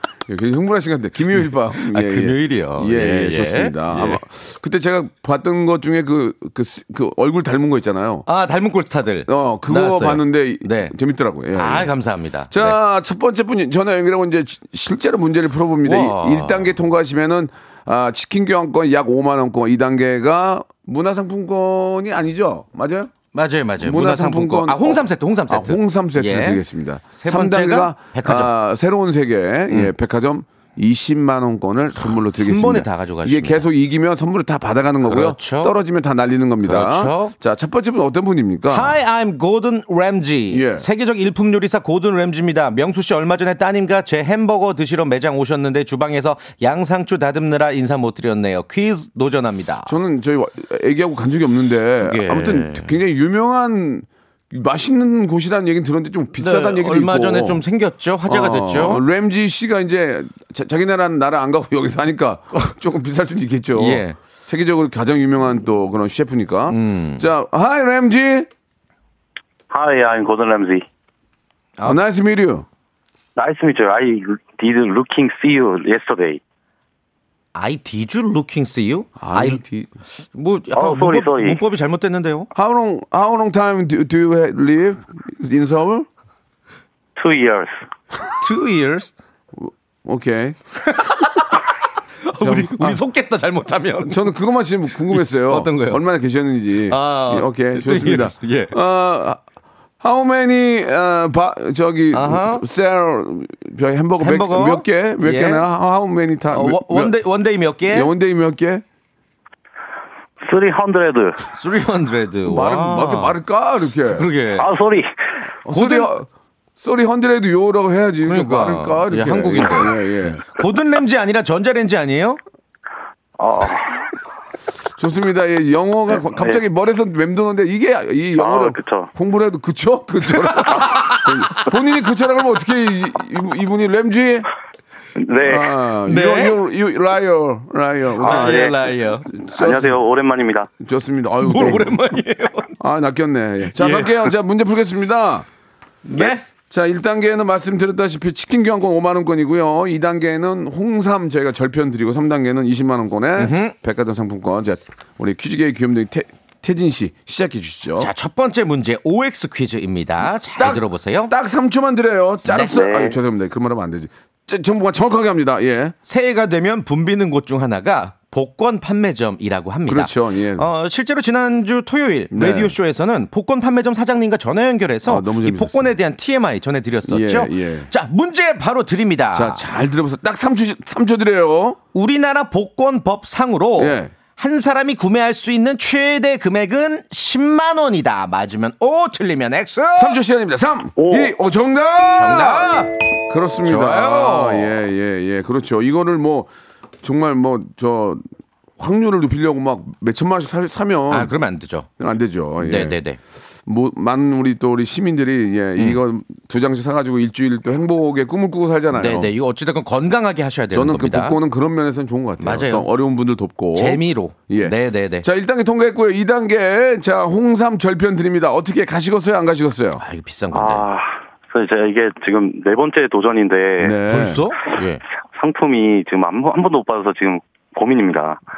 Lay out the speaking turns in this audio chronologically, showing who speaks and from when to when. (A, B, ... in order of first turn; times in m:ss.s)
0:00.3-0:08.2 A
0:01.4-0:04.2 B
0:08.2-0:10.9 B
0:09.3-0:11.9 A
0:11.6-0:12.8 B
0:12.5-0:23.1 A
0:15.8-0:16.7 B
0:23.3-0:26.6 B
0:23.8-0:39.0 A
0:27.1-0:28.5 B
0:32.1-0:33.6 B
0:35.0-0:35.7 B
0:36.6-0:37.4 B
0:38.7-0:49.9 B
0:40.5-0:40.9 A
0:49.8-0:57.6 A
0:52.0-0:52.9 B
0:56.4-0:59.0 B
0:58.3-1:08.5 A
1:03.8-1:04.2 B
1:06.7-1:07.2 B
1:09.7-1:10.8 C
1:11.8-1:12.6 A
1:13.4-1:16.4 C
1:17.5-1:19.6 B
1:19.2-1:19.9 A
1:20.3-1:22.5 B
1:20.7-1:21.6 C
1:22.5-1:26.1 A
1:27.2-1:27.7 C
1:28.4-1:29.1 B
1:29.5-1:30.6 A
1:30.9-1:31.5 B
1:32.2-1:34.2 B
1:32.4-1:33.0 A
1:34.0-1:39.4 A
1:35.1-1:36.0 B
1:36.9-1:38.7 B
1:40.0-1:47.2 A
1:42.1-1:42.6 B
1:44.2-1:45.6 B
1:46.5-1:48.1 B
1:47.9-1:48.8 A
1:50.4-1:51.4 C
1:51.5-1:53.4 B
1:52.4-1:54.3 A
1:54.1-1:54.7 B
1:54.6-1:55.1 C
1:55.6-1:56.3 A
1:55.7-1:56.1 B
1:56.8-2:00.4 A
1:58.2-2:02.4 B
2:03.4-2:04.0 C
2:05.0-2:14.5 A
2:08.4-2:09.1 C
2:10.3-2:11.5 B
2:15.2-2:15.7 C
2:15.4-2:18.7 A
2:16.1-2:16.6 B
2:18.2-2:19.3 B
2:18.2-2:18.8 C
2:19.3-2:20.0 A
2:19.5-2:20.7 C
2:20.8-2:22.0 A
2:21.4-2:22.8 B
2:22.8-2:25.5 A
2:23.6-2:24.3 B
2:26.0-2:26.4 B
2:26.2-2:38.1 A
2:33.4-2:33.7 B
2:38.0-2:41.3 B
2:40.6-2:46.0 A
2:42.5-2:42.8 B
2:42.6-2:43.1 C
2:46.0-2:59.6 B
2:49.9-2:50.6 A
2:52.3-2:52.7 A
2:55.0-2:55.9 A
2:57.1-2:57.9 A
2:59.3-3:01.8 A
3:01.9-3:10.2 B
3:03.8-3:04.1 A
3:10.0-3:16.5 A
3:12.1-3:12.9 B
3:13.6-3:14.7 B
3:17.0-3:18.2 A
3:18.8-3:21.3 A
3:21.1-3:21.9 B
3:22.0-3:23.0 A
3:22.6-3:23.2 B
3:23.6-3:29.3 A
3:28.9-3:31.4 B
3:30.7-3:40.0 A
3:32.4-3:32.9 B
3:33.7-3:35.2 B
3:40.0-3:40.9 B
3:40.5-3:44.0 C
3:43.8-3:44.4 A
3:44.1-3:45.0 B
3:45.3-3:48.4 C